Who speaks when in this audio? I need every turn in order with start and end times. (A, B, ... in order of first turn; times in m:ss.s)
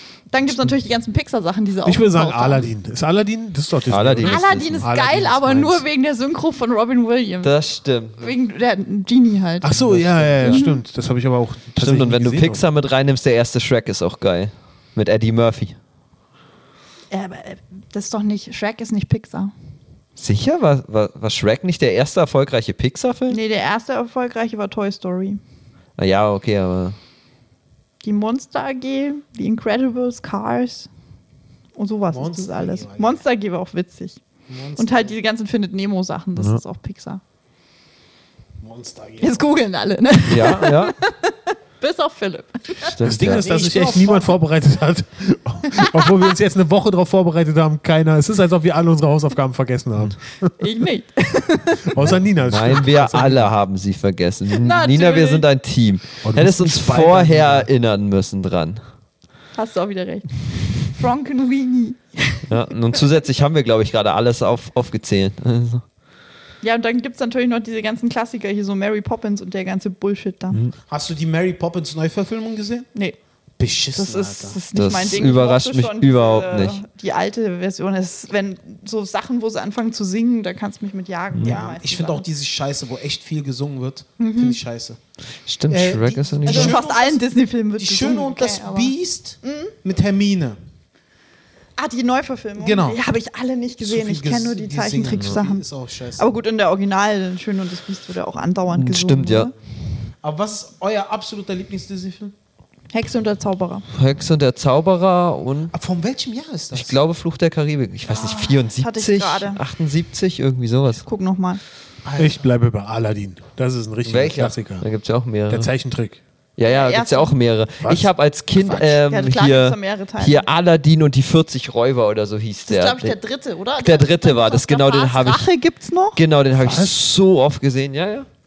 0:00.3-0:02.7 A
0:01.8-0:05.8 B
0:03.9-0:04.9 C
0:04.2-0:07.5 A
0:07.4-0:08.3 C
0:08.2-0:09.7 A
0:09.6-0:12.6 B
0:09.8-0:10.6 C
0:10.4-0:10.8 A
0:11.8-0:15.8 C
0:17.1-0:19.5 A
0:20.2-0:23.4 C
0:23.3-0:25.4 A
0:26.0-0:27.0 C
0:28.0-0:30.9 A
0:31.8-0:34.2 A
0:32.1-0:33.2 D
0:34.5-0:35.2 D
0:34.8-0:37.2 A
0:38.6-0:39.5 D
0:39.2-0:43.0 A
0:40.3-0:41.0 C
0:42.8-0:43.5 C
0:43.0-0:50.5 B
0:43.2-0:44.4 D
0:45.8-0:46.2 A
0:50.6-0:52.2 A
0:51.9-0:53.5 B
0:52.5-0:58.8 C
0:54.5-0:55.5 A
0:56.2-0:57.7 B
0:59.6-1:03.0 A
1:02.5-1:05.8 C
1:06.6-1:10.6 A
1:10.9-1:12.9 D
1:13.6-1:14.6 D
1:14.0-1:22.3 A
1:14.7-1:16.8 C
1:21.4-1:25.0 D
1:24.2-1:24.6 A
1:25.5-1:26.8 C
1:25.7-1:27.2 D
1:26.5-1:28.9 A
1:27.8-1:30.6 D
1:29.4-1:29.7 A
1:31.8-1:35.6 A
1:32.6-1:33.0 D
1:33.8-1:36.3 D
1:36.2-1:39.5 A
1:38.7-1:39.5 C
1:40.2-1:42.3 D
1:42.9-1:43.9 A
1:43.9-1:45.7 C
1:45.7-1:47.0 D
1:46.7-1:51.0 C
1:48.1-1:49.6 A
1:51.0-1:51.6 A
1:52.0-1:52.5 D
1:52.2-1:54.9 B
1:54.0-1:55.7 C
1:55.5-1:56.2 B
1:56.6-2:03.2 C
1:56.7-1:57.4 A
1:57.8-1:58.9 B
1:58.8-2:00.5 A
2:02.7-2:06.2 A
2:03.8-2:05.5 C
2:06.2-2:08.3 C
2:06.6-2:07.0 B